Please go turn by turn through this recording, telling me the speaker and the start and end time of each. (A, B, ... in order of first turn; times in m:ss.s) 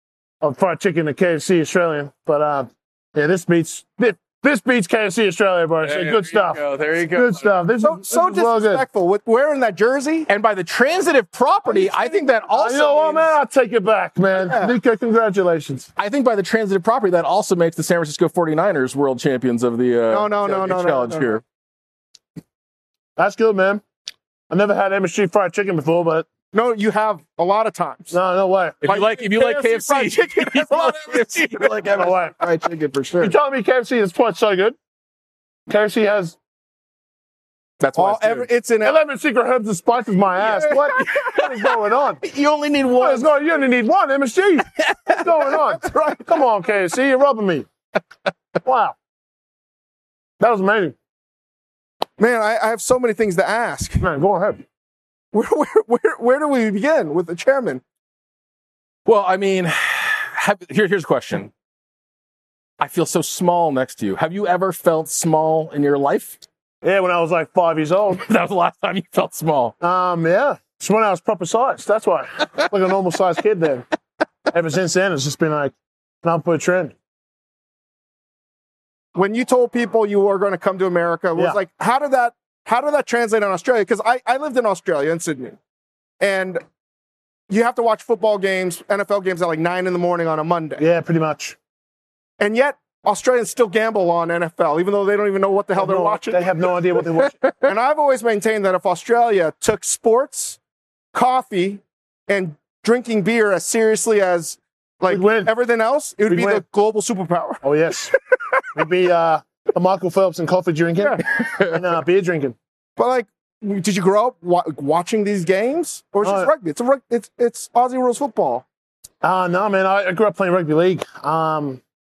0:00.4-0:08.8 A
0:05.8-0:07.6 B
0:07.8-0:10.3 C
0:10.3-0:13.3 B
0:11.6-0:12.5 C
0:12.5-0:15.9 A
0:14.4-0:14.8 C
0:16.0-0:21.4 B
0:20.1-0:21.4 C
0:23.2-0:23.8 A
0:24.5-0:26.3 A
0:26.5-0:28.1 C
0:28.1-0:28.8 A
0:28.8-0:33.3 B
0:28.8-0:31.8 C
0:31.9-0:32.3 A
0:33.2-0:34.8 A
0:35.7-0:36.4 A
0:37.8-0:38.5 B
0:38.0-0:39.0 C
0:38.8-0:42.2 A
0:40.4-0:41.0 C
0:40.6-0:43.3 B
0:43.0-0:47.7 A
0:44.8-0:45.5 B
0:45.7-0:46.3 C
0:48.6-0:49.0 A
0:50.4-0:51.0 A
0:52.2-0:54.0 C
0:54.0-0:54.6 A
0:55.3-0:57.8 C
0:59.0-1:01.5 B
1:02.8-1:06.4 B
1:06.8-1:08.2 A
1:08.2-1:09.8 B
1:09.8-1:13.9 A
1:14.5-1:17.0 A
1:19.1-1:25.6 C
1:26.2-1:26.6 C
1:27.5-1:30.8 C
1:30.8-1:31.6 A
1:32.4-1:36.4 C
1:35.8-1:37.4 A
1:37.6-1:40.6 C
1:41.1-1:47.6 C
1:45.1-1:45.5 A
1:46.3-1:46.6 A
1:47.6-1:48.1 A
1:48.7-1:52.6 A
1:51.2-1:51.8 B
1:53.0-1:58.6 C
1:56.2-1:56.5 A
1:59.2-2:01.8 A